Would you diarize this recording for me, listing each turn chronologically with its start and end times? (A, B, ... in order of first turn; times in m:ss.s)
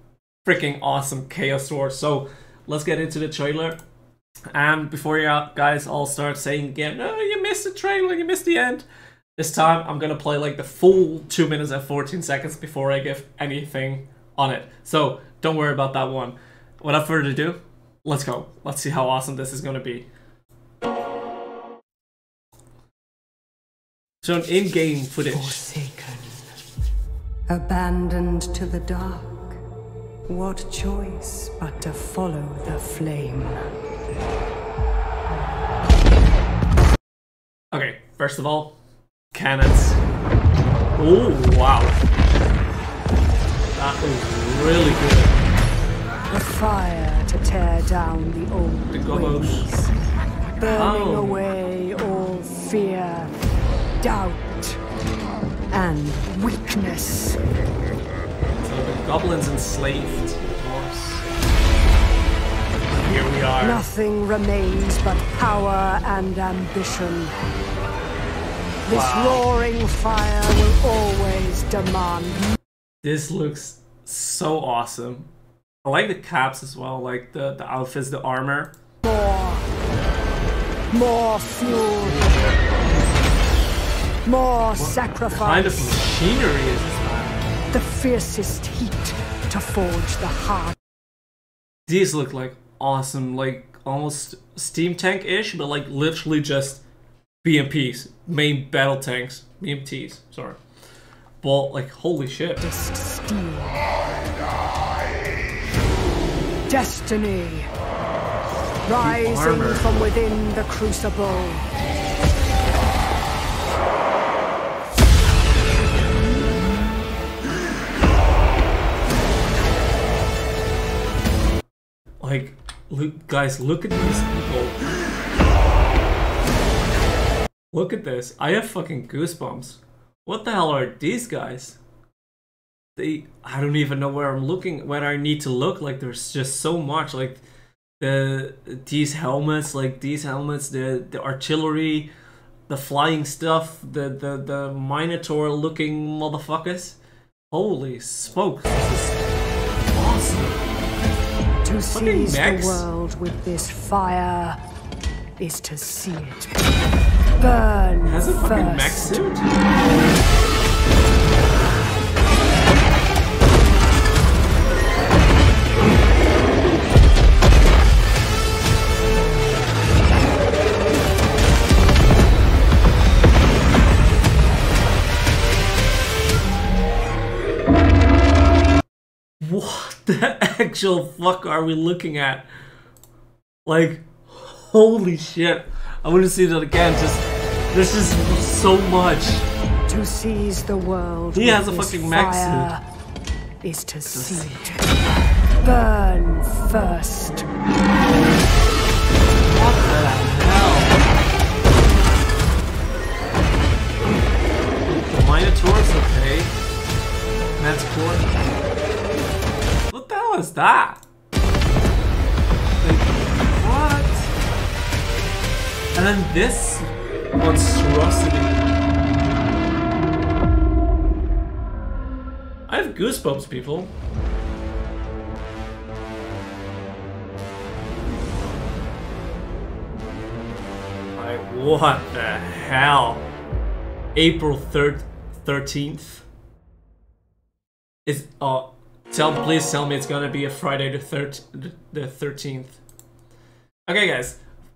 0:00.4-0:03.8 A
0:04.5-0:20.1 A
0:24.2-0:25.6 A
0:25.3-0:26.5 B
0:27.5-0:29.6 B
0:30.2-0:33.7 B
0:37.7-0:38.8 A
0:39.3-0:40.0 A
0:41.0-0:42.0 A
0:43.8-0:45.4 A
0:46.3-0:49.9 B
0:48.9-0:49.9 A
0:50.6-0:53.3 B
0:50.7-0:51.4 A
0:54.0-0:54.8 B
0:55.7-0:57.4 B
0:58.6-1:01.3 A
1:03.0-1:03.8 A
1:03.6-1:07.4 B
1:08.8-1:12.4 B
1:08.9-1:09.4 A
1:13.0-1:15.3 A
1:15.8-1:18.7 A
1:19.0-1:19.7 B
1:20.9-1:22.3 B
1:24.2-1:26.0 B
1:24.8-1:27.4 A
1:27.7-1:30.8 B
1:31.9-1:36.8 A
1:37.4-1:40.6 A
1:41.4-1:42.6 A
1:42.6-1:43.9 B
1:46.7-1:47.7 B
1:48.8-1:51.7 B
1:49.0-1:49.8 A
2:02.2-2:04.9 A
2:07.7-2:11.8 A
2:13.0-2:17.4 A
2:18.0-2:22.1 A
2:22.7-2:27.0 A
2:27.5-2:29.2 A
2:29.9-2:30.7 A
2:31.6-2:34.6 B
2:31.9-2:32.8 A
2:35.4-2:36.7 B
2:37.4-2:39.2 B
2:38.1-2:39.5 A
2:59.4-3:02.4 A
3:03.6-3:09.5 A
3:09.9-3:12.8 B
3:11.3-3:12.7 A
3:13.6-3:14.9 B
3:14.1-3:14.8 A
3:15.6-3:17.5 B
3:19.5-3:21.0 A
3:24.8-3:26.5 A
3:27.6-3:28.3 A
3:29.9-3:31.0 A
3:32.8-3:34.3 A
3:35.9-3:38.6 A
3:42.7-3:43.9 A
3:51.2-3:53.2 A
3:54.1-3:56.2 A
3:58.0-4:02.8 A
4:03.9-4:04.4 A